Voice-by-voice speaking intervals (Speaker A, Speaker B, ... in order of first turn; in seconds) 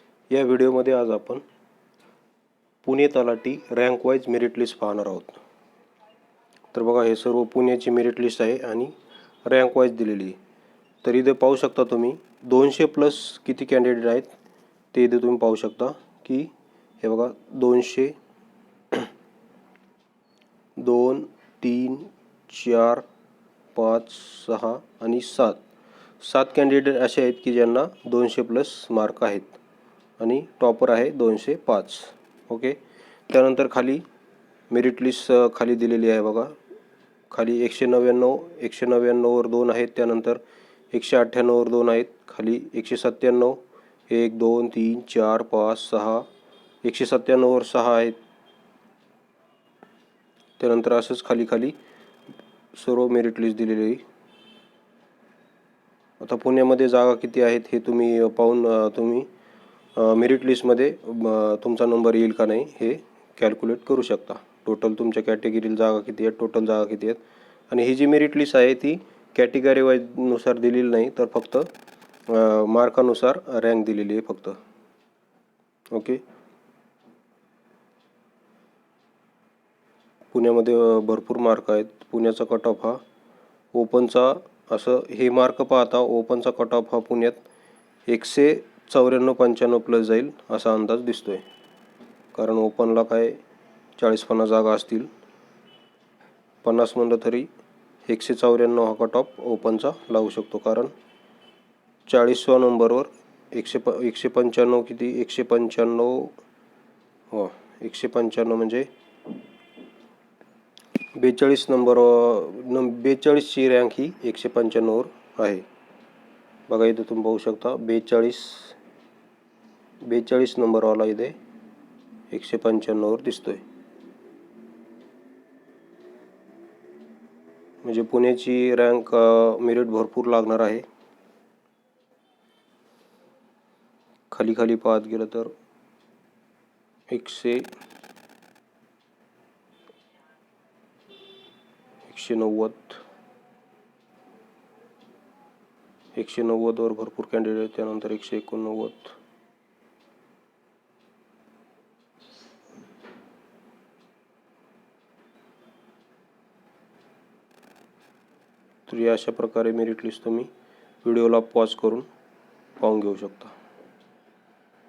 Speaker A: 0.3-1.4, 2.8-5.4, 6.7-8.9, 9.4-10.4, 11.0-14.3, 14.9-16.5, 17.0-18.1, 20.8-23.0, 23.7-25.6, 26.2-29.6, 30.2-32.8, 33.3-34.0, 34.7-36.5, 37.3-40.4, 40.9-46.2, 46.8-48.1, 50.6-51.8, 52.7-54.0, 56.2-59.3, 60.0-71.7, 72.3-74.6, 75.9-76.2, 80.3-83.0, 83.7-87.4, 88.1-91.4, 92.3-93.4, 94.0-95.1, 96.6-97.5, 98.1-100.9, 102.1-106.3, 107.3-108.9, 111.1-115.7, 116.7-118.8, 120.0-121.3, 122.3-123.6, 127.8-130.8, 134.3-135.5, 137.1-137.7, 142.1-143.0, 146.1-149.1, 158.9-160.5, 161.0-162.1, 162.8-163.5